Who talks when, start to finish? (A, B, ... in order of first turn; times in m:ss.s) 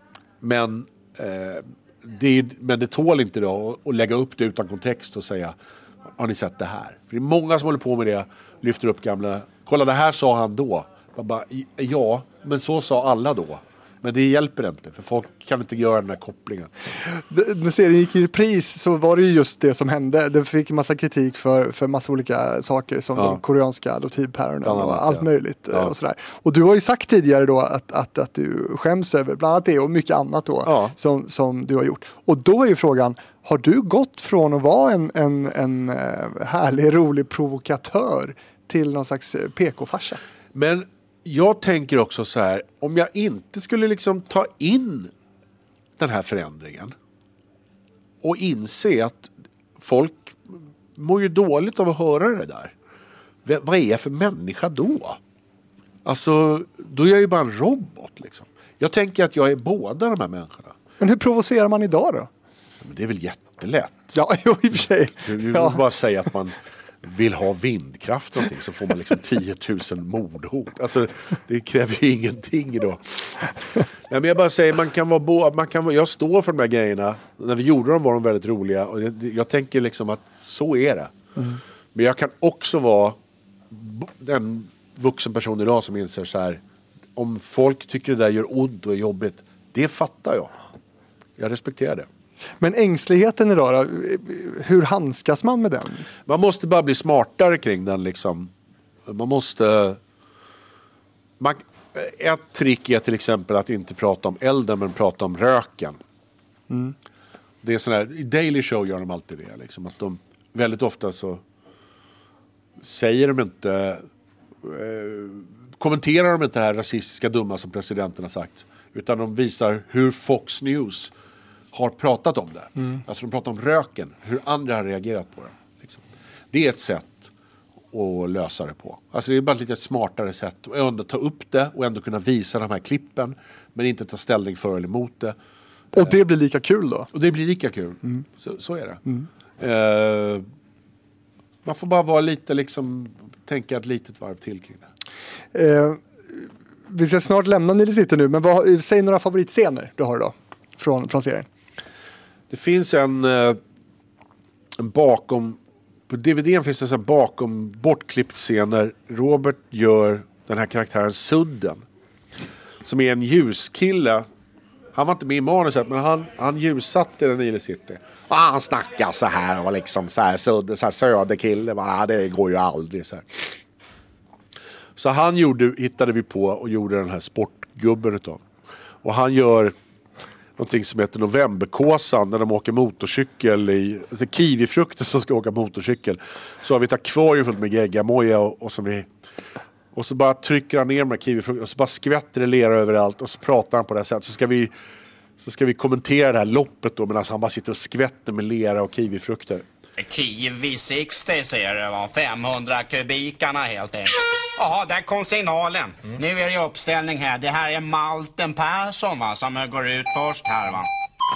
0:00.4-0:05.6 A
0:06.2-0:16.9 A
0:17.0-0:40.2 B
0:23.2-0:23.4 A
0:24.6-0:25.9 A
0:30.6-0:31.0 A
0:40.5-0:45.1 A
0:46.0-0:47.0 A
0:48.2-0:52.7 A
0:53.4-0:55.2 A
0:56.0-1:00.8 A
1:01.0-1:02.3 B
1:02.8-1:04.2 A
1:04.1-1:05.8 B
1:05.2-1:13.4 A
1:14.1-1:21.1 A
1:21.9-1:23.2 A
1:23.7-1:26.6 A
1:27.2-1:30.5 A
1:31.4-1:32.1 A
1:32.6-1:36.1 B
1:36.3-1:38.5 A
1:39.1-1:40.0 A
1:41.4-1:46.0 A
1:47.6-1:51.4 A
1:52.8-1:54.1 A
1:54.6-2:01.1 A
2:01.7-2:07.3 A
2:07.9-2:15.4 A
2:15.9-2:17.1 B
2:17.1-2:19.0 A
2:19.6-2:20.4 A
2:21.6-2:24.9 A
2:25.5-2:31.5 B
2:32.5-2:33.6 A
2:34.8-2:35.6 A
2:36.1-2:41.8 A
2:42.8-2:44.3 A
2:44.9-2:53.6 A
2:55.0-2:58.4 A
2:59.0-2:59.8 A
3:00.6-3:09.1 A
3:09.9-3:14.7 A
3:15.4-3:19.6 A
3:20.0-3:30.9 C